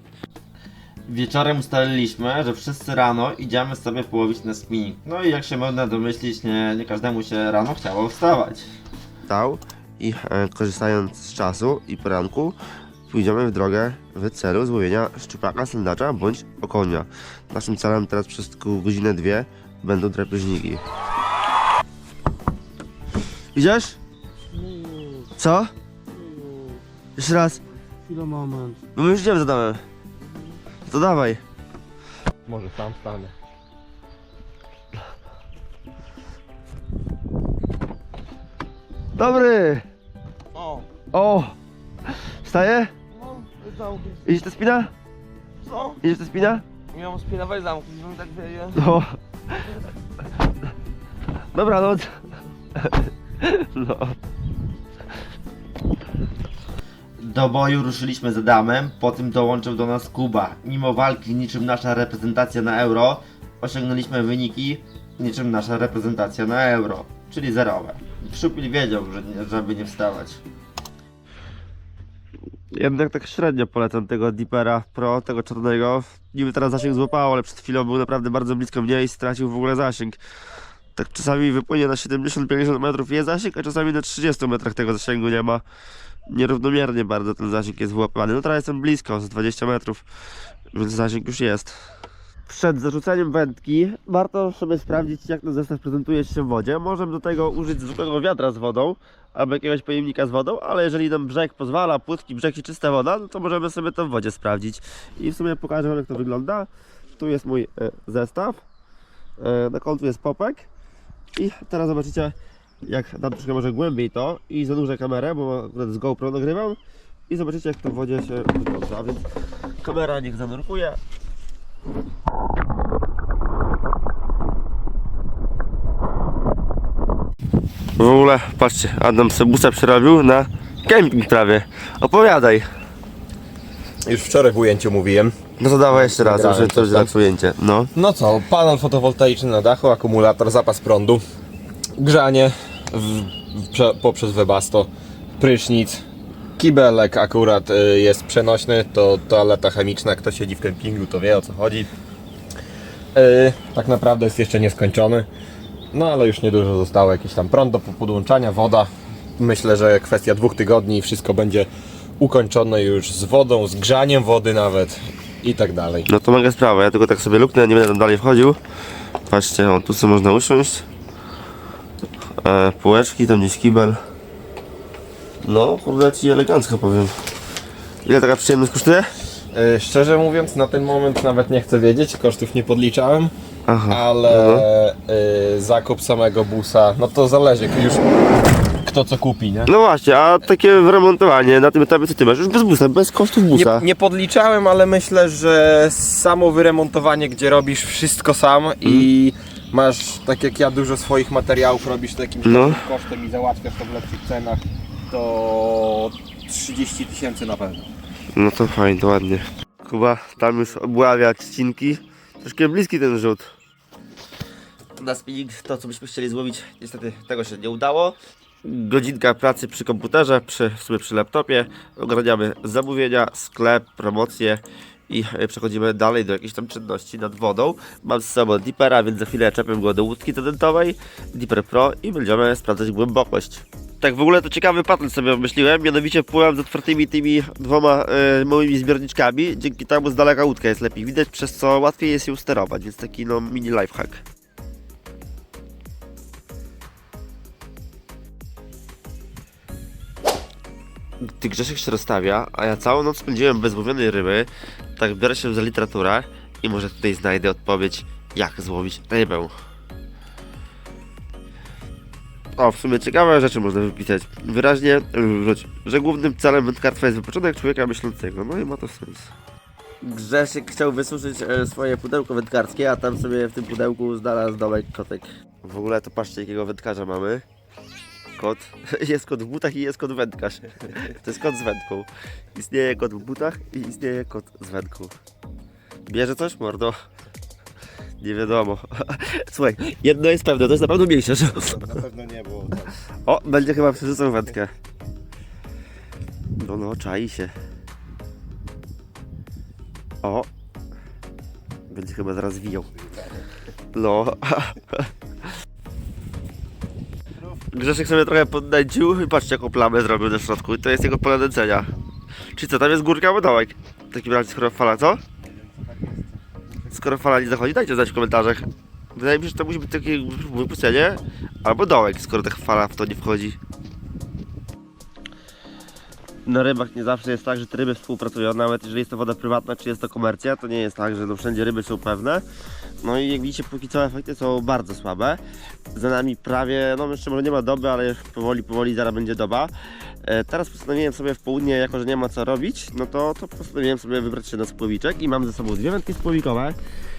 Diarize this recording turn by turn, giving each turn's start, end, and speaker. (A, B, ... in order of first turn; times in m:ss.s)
0:01.1-0:08.7 A
0:09.3-0:12.6 A
0:13.1-0:20.8 A
0:23.6-0:24.0 A
0:24.6-0:25.1 B
0:25.4-0:25.7 A
0:26.2-0:26.8 B
0:27.2-0:27.6 A
0:28.7-0:29.8 A
0:30.9-0:31.4 A
0:32.5-0:33.4 C
0:39.2-0:39.9 A
0:40.5-0:40.9 B
0:41.1-0:41.6 A
0:42.1-0:42.9 A
0:43.2-0:44.2 B
0:44.2-0:44.9 A
0:45.6-0:46.0 B
0:46.0-0:46.6 A
0:46.9-0:48.8 B
0:48.7-0:49.2 A
0:51.5-0:54.2 A
0:57.2-1:10.4 A
1:12.7-1:20.2 A
1:21.0-1:25.6 A
1:26.3-1:30.0 A
1:30.7-1:31.8 A
1:32.5-1:48.6 A
1:49.4-1:50.7 A
1:51.4-1:52.4 A
1:52.9-1:59.3 A
1:59.8-2:01.0 A
2:08.0-2:12.7 A
2:14.1-2:15.4 C
2:15.6-2:17.9 A
2:15.9-2:17.1 C
2:18.0-2:21.2 C
2:22.0-2:26.0 C
2:26.6-2:31.9 C
2:33.1-2:35.3 C
2:35.9-2:41.7 C
2:42.2-2:46.1 C
2:46.1-2:48.6 A
2:49.3-2:50.9 A
2:52.4-2:54.0 A
2:55.4-2:57.2 A
2:58.0-2:59.1 A
2:59.5-3:03.3 C
3:03.7-3:04.6 A
3:03.9-3:08.0 C
3:08.8-3:09.7 C
3:09.7-3:13.8 A
3:13.5-3:27.9 C
3:22.4-3:22.8 A
3:28.4-3:33.5 A
3:35.0-4:04.2 A
4:11.2-4:19.5 A
4:22.6-4:29.3 A
4:30.0-4:37.4 A
4:38.4-4:45.2 A
4:46.1-4:47.0 A
4:48.2-4:52.0 A
4:51.6-4:53.0 D
4:53.3-4:54.7 A
4:56.6-4:57.5 A
5:00.2-5:00.5 A
5:01.9-5:02.9 A
5:02.9-5:03.5 D
5:03.9-5:05.1 A
5:07.4-5:07.6 D
5:07.7-5:11.9 A
5:12.6-5:15.2 A
5:15.4-5:17.0 D
5:16.9-5:23.6 A
5:26.5-5:32.4 A
5:33.0-5:35.4 A
5:35.9-5:39.7 A
5:40.2-5:46.8 A